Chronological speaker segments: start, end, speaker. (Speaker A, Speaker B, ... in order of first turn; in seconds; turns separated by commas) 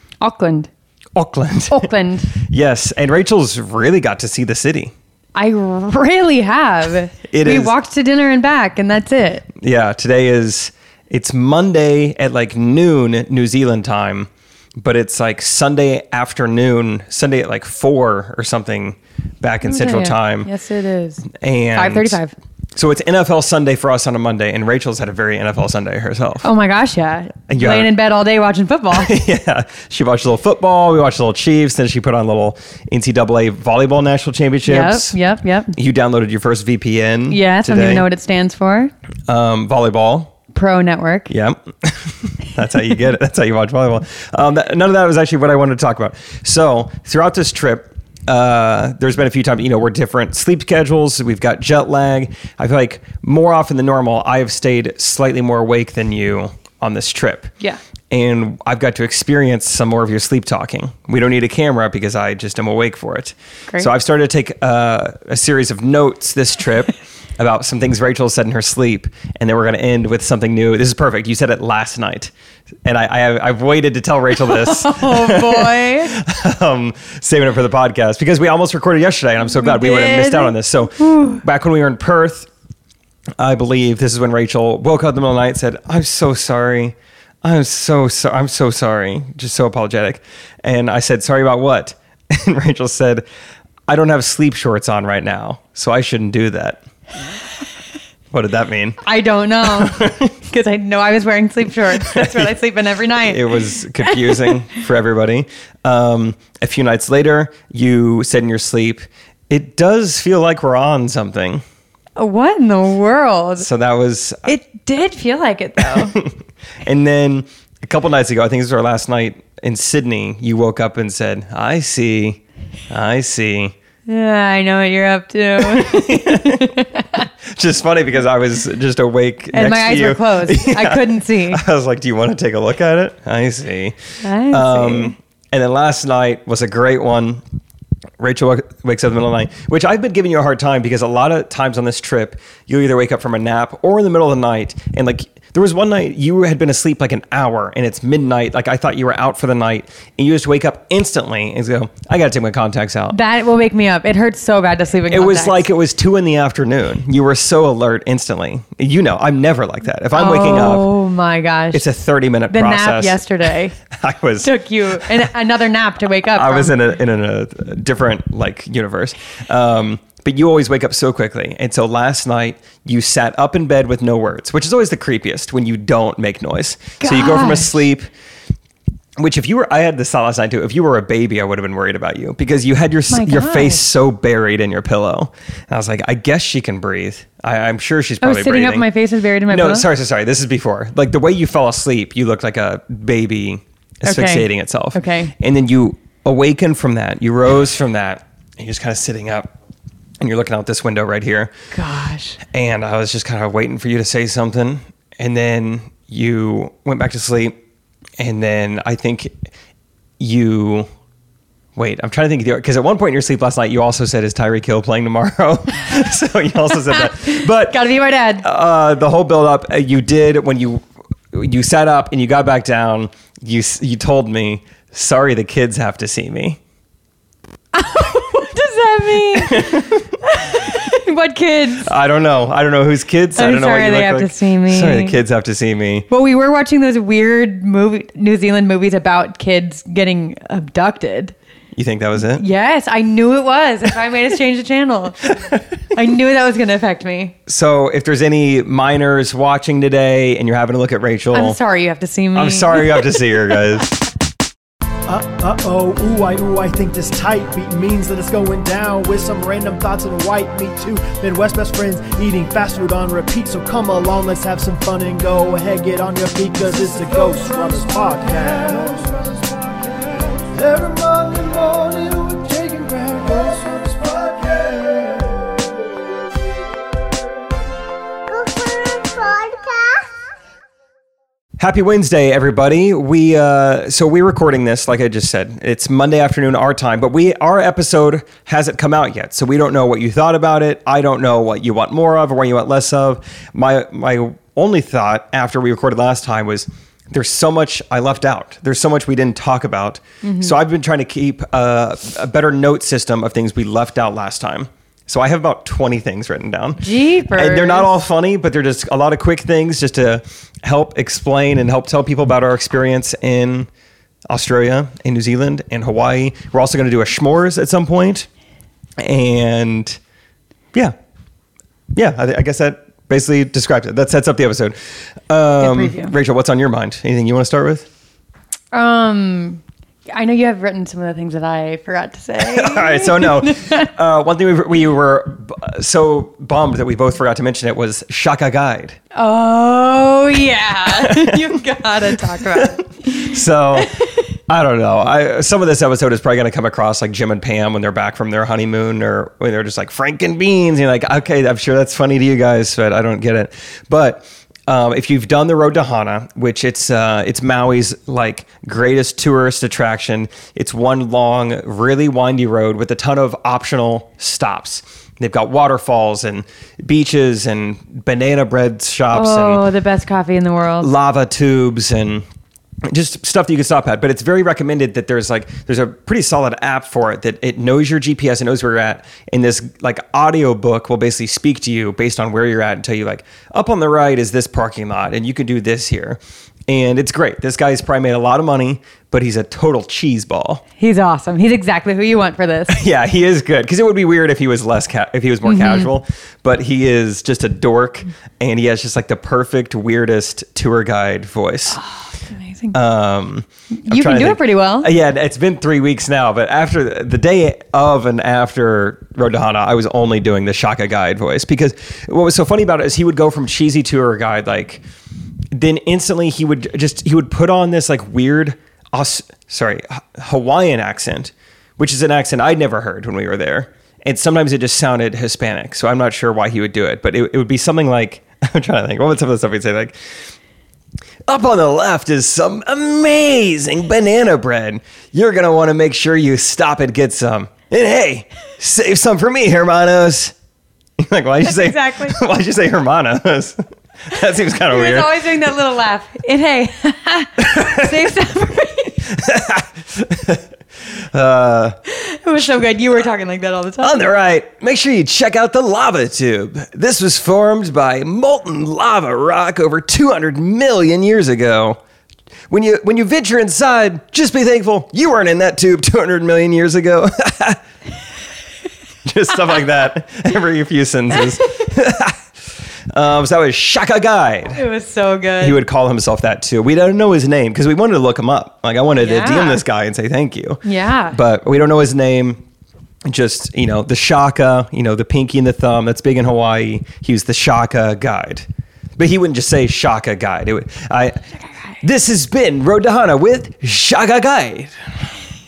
Speaker A: 0.2-0.7, Speaker B: 1.2-4.9, Speaker A: 1.7-2.3, Speaker A: 5.3-9.5, Speaker B: 7.3-7.7, Speaker B: 9.6-20.5, Speaker A: 19.6-22.3, Speaker B: 21.3-22.2, Speaker B: 22.8-26.5, Speaker A: 26.4-29.1, Speaker B: 27.5-27.9, Speaker B: 28.9-35.2, Speaker A: 34.6-35.8, Speaker B: 35.8-38.1, Speaker A: 37.3-38.9, Speaker B: 39.3-40.3, Speaker A: 40.5-41.3, Speaker B: 41.3-57.5, Speaker B: 58.1-72.3, Speaker B: 72.8-82.5, Speaker A: 74.5-76.1, Speaker A: 79.5-81.4, Speaker B: 83.4-93.2, Speaker B: 93.9-96.8, Speaker B: 98.3-99.0, Speaker A: 99.0-104.6, Speaker B: 99.7-100.3, Speaker B: 102.0-102.5, Speaker B: 103.2-111.6, Speaker A: 112.2-113.7, Speaker B: 113.6-114.5, Speaker A: 114.5-116.2, Speaker B: 115.8-123.8, Speaker A: 124.1-127.3, Speaker B: 125.6-126.8, Speaker B: 127.5-137.4, Speaker A: 129.5-131.6, Speaker A: 134.2-135.1, Speaker B: 138.2-153.2, Speaker A: 153.1-155.7, Speaker B: 155.1-160.9, Speaker A: 160.1-161.8, Speaker B: 161.7-163.2, Speaker A: 162.5-163.8, Speaker B: 163.9-165.3, Speaker A: 164.4-166.7, Speaker B: 166.3-178.1, Speaker A: 177.0-177.8, Speaker B: 179.2-188.8, Speaker A: 183.1-183.8, Speaker A: 188.2-189.9, Speaker B: 189.5-199.5, Speaker A: 194.1-195.3, Speaker B: 200.2-201.5, Speaker A: 201.7-202.4, Speaker B: 202.4-207.6, Speaker B: 208.2-209.3, Speaker B: 210.2-210.9, Speaker B: 211.8-217.8, Speaker A: 216.9-218.5, Speaker B: 218.4-226.6, Speaker A: 227.7-231.9, Speaker B: 229.4-230.1, Speaker B: 231.8-236.1, Speaker A: 233.4-235.2, Speaker A: 236.1-241.3, Speaker B: 241.8-242.4, Speaker A: 242.4-245.4, Speaker A: 245.9-247.4, Speaker B: 247.5-251.6, Speaker A: 251.3-253.3, Speaker B: 252.3-253.9, Speaker C: 255.1-275.7, Speaker C: 278.9-279.9, Speaker B: 281.6-313.7, Speaker A: 300.2-300.6, Speaker A: 306.8-307.9, Speaker B: 314.3-318.3, Speaker B: 319.0-320.0, Speaker B: 321.9-327.9, Speaker A: 325.6-326.1, Speaker A: 328.7-329.6, Speaker A: 330.1-333.9, Speaker B: 332.4-339.0, Speaker A: 339.1-344.3, Speaker B: 340.9-341.5, Speaker B: 342.4-369.7, Speaker A: 369.1-370.9, Speaker B: 370.8-372.2, Speaker B: 372.9-390.6, Speaker A: 390.8-392.8, Speaker B: 392.7-401.8, Speaker A: 395.4-395.9, Speaker A: 401.7-402.8, Speaker B: 402.7-414.8, Speaker A: 403.9-404.9, Speaker B: 415.5-430.0, Speaker B: 431.3-440.3, Speaker B: 441.0-445.1, Speaker A: 441.4-442.2, Speaker A: 444.7-449.0, Speaker B: 447.4-447.9, Speaker B: 449.1-450.4, Speaker B: 451.0-451.8, Speaker A: 451.9-454.1, Speaker B: 453.8-461.8, Speaker B: 462.5-467.6, Speaker B: 469.1-472.2, Speaker B: 472.9-474.6, Speaker A: 474.6-475.6, Speaker B: 475.4-482.4, Speaker A: 479.0-479.6, Speaker A: 480.6-481.2, Speaker B: 483.1-488.5, Speaker B: 489.0-491.2, Speaker B: 491.8-494.9